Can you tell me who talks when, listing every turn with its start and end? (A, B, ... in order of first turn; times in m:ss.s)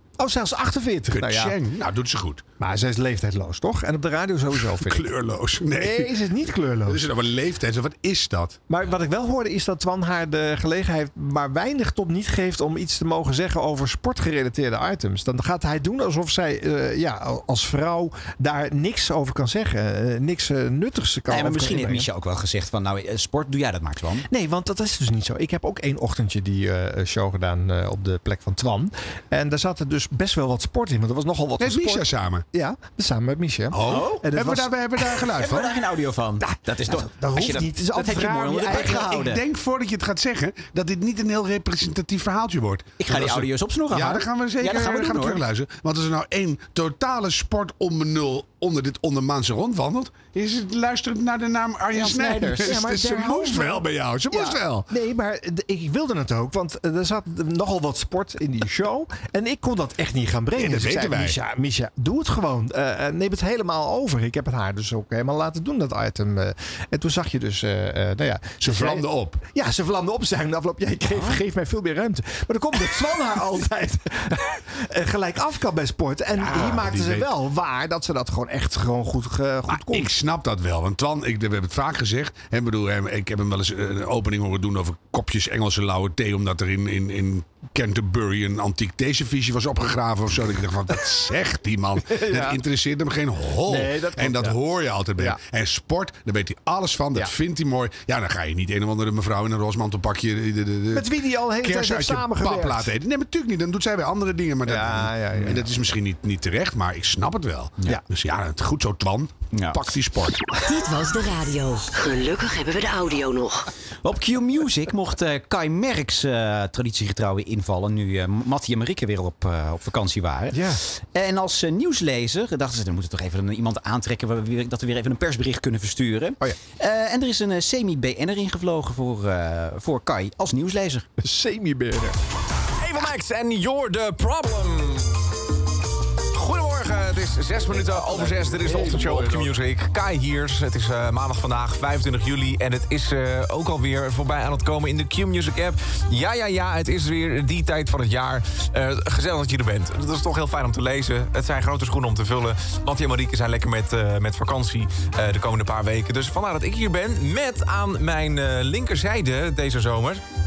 0:00.2-0:01.6 A
0:01.1-0:02.4 B
0:02.6-0:05.1 A
0:04.8-0:06.1 B
0:05.7-0:07.1 A
0:06.9-0:08.6 B
0:08.7-0:22.1 A
0:21.3-0:24.2 C
0:24.3-0:34.8 A
0:31.6-0:32.4 B
0:33.7-0:35.8 B
0:33.9-0:34.3 C
0:35.2-0:39.4 C
0:36.4-0:39.3 A
0:38.8-0:54.9 B
0:43.0-0:45.4 C
0:51.9-0:52.8 C
0:52.2-1:20.1 A
1:00.6-1:01.4 B
1:08.6-1:09.4 B
1:16.4-1:17.3 B
1:19.7-1:50.4 B
1:32.0-1:32.6 A
1:33.7-1:34.6 A
1:40.9-1:42.9 A
1:44.6-1:45.8 A
1:49.5-1:49.8 C
1:50.6-1:53.6 D
1:54.0-2:11.1 C
2:00.5-2:00.8 A
2:11.2-2:12.2 A
2:12.8-2:15.2 E
2:16.3-2:40.2 E
2:17.7-2:19.5 A